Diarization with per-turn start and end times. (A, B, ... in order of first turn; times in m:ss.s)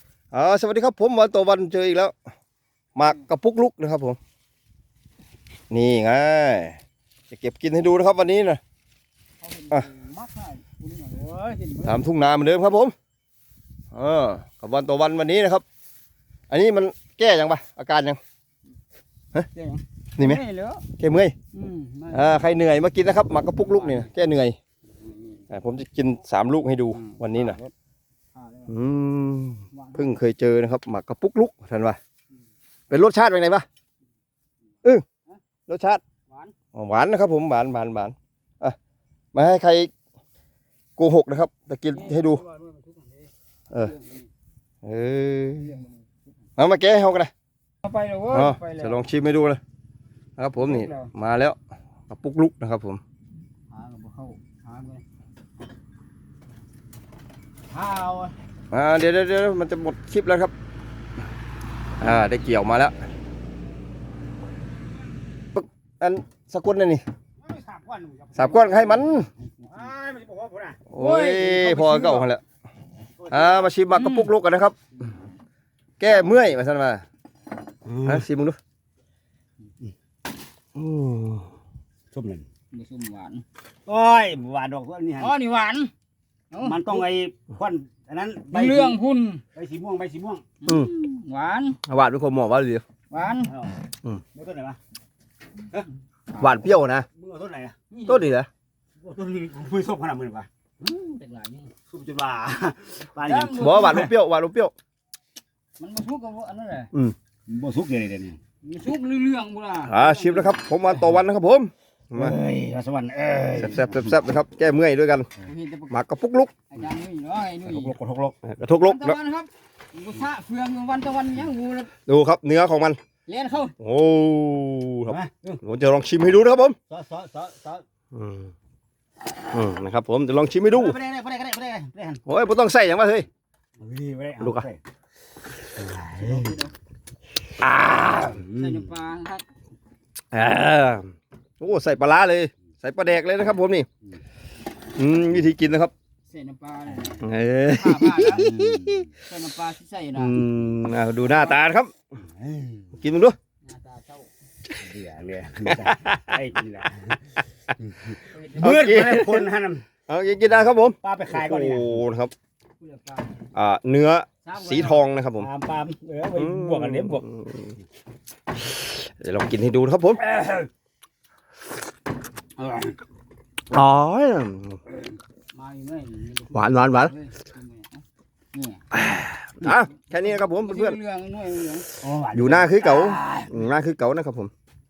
0:00.3-0:02.2 A
0:03.0-0:04.2 A
0:05.7-0:06.8 A
0:07.3-0:08.6 A
0:09.4-0:12.0 B
0:11.8-0:12.9 A
0:13.9-0:15.6 A
0:16.5-0:18.2 A
0:19.5-0:20.9 B
0:21.0-0:21.4 A
0:21.5-0:22.4 B
0:22.1-0:24.6 A
0:23.6-0:24.1 B
0:25.5-0:27.6 A
0:27.0-0:27.7 B
0:28.4-0:28.7 B
0:28.7-0:32.0 A
0:29.7-0:30.1 B
0:32.9-0:33.7 A
0:35.7-0:36.0 A
0:36.3-0:36.5 B
0:36.7-0:38.8 A
0:39.3-0:39.9 A
0:41.0-0:42.4 A
0:41.9-0:43.3 B
0:43.8-0:44.3 B
0:44.8-0:45.7 A
0:45.6-0:46.0 B
0:46.6-0:47.3 A
0:47.8-0:49.0 B
0:48.3-0:49.6 A
0:50.4-0:51.6 A
0:50.6-0:51.1 B
0:52.1-0:53.0 A
0:53.7-0:55.0 B
0:57.7-0:58.3 B
0:58.7-1:00.5 A
1:02.0-1:03.0 A
1:05.5-1:07.0 A
1:07.4-1:08.9 C
1:08.3-1:09.3 A
1:08.6-1:09.9 B
1:09.7-1:10.8 C
1:10.9-1:12.4 A
1:11.0-1:12.3 B
1:13.2-1:13.7 C
1:13.3-1:14.8 A
1:13.9-1:14.3 B
1:16.0-1:17.0 A
1:17.8-1:18.2 C
1:18.0-1:18.6 A
1:20.8-1:21.5 A
1:22.1-1:22.5 C
1:22.7-1:23.4 B
1:23.9-1:25.4 C
1:25.2-1:25.9 B
1:26.5-1:27.1 B
1:26.6-1:29.0 C
1:28.5-1:29.4 B
1:29.5-1:30.4 C
1:30.6-1:31.8 B
1:31.9-1:32.8 A
1:33.1-1:33.5 B
1:33.5-1:33.7 C
1:34.3-1:34.8 C
1:36.4-1:37.1 A
1:36.4-1:37.8 C
1:37.9-1:38.3 B
1:38.1-1:38.5 A
1:39.0-1:40.5 C
1:40.8-1:41.7 B
1:41.9-1:44.1 C
1:43.2-1:44.1 B
1:43.6-1:44.7 A
1:45.8-1:46.9 B
1:47.5-1:48.4 C
1:48.6-1:50.5 B
1:49.9-1:52.4 A
1:52.1-1:54.2 C
1:53.6-1:55.3 A
1:55.4-1:56.0 B
1:55.9-1:56.5 A
1:56.7-1:58.0 B
1:57.6-1:58.4 C
1:58.4-1:59.2 A
1:58.8-2:01.9 B
2:02.1-2:03.0 A
2:03.3-2:03.8 B
2:03.8-2:06.8 A
2:05.1-2:05.6 C
2:06.9-2:07.8 C
2:08.1-2:08.5 A
2:09.5-2:11.0 A
2:10.7-2:12.2 C
2:12.3-2:13.3 A
2:13.8-2:14.8 C
2:14.4-2:14.7 A
2:15.8-2:16.5 C
2:16.2-2:16.7 B
2:17.6-2:18.4 A
2:18.0-2:18.9 C
2:18.4-2:19.5 B
2:20.3-2:23.9 A
2:25.0-2:25.9 A
2:26.2-2:28.6 B
2:27.2-2:29.1 A
2:28.5-2:29.1 C
2:29.2-2:30.5 B
2:30.2-2:31.9 A
2:32.4-2:33.0 C
2:33.0-2:33.4 A
2:33.6-2:34.3 B
2:34.8-2:39.8 C
2:35.7-2:36.4 A
2:38.2-2:38.9 B
2:38.6-2:39.5 A
2:40.1-2:42.3 A
2:41.0-2:42.0 C
2:42.8-2:43.3 B
2:43.5-2:45.5 A
2:44.4-2:45.1 B
2:45.4-2:47.3 C
2:46.4-2:47.8 A
2:48.8-2:50.2 A
2:50.4-2:50.7 C
2:53.7-2:54.8 A
2:55.5-2:58.8 B
2:56.5-2:57.1 A
2:58.9-3:01.0 A
3:00.0-3:01.9 B
3:02.0-3:03.5 C
3:02.3-3:04.5 A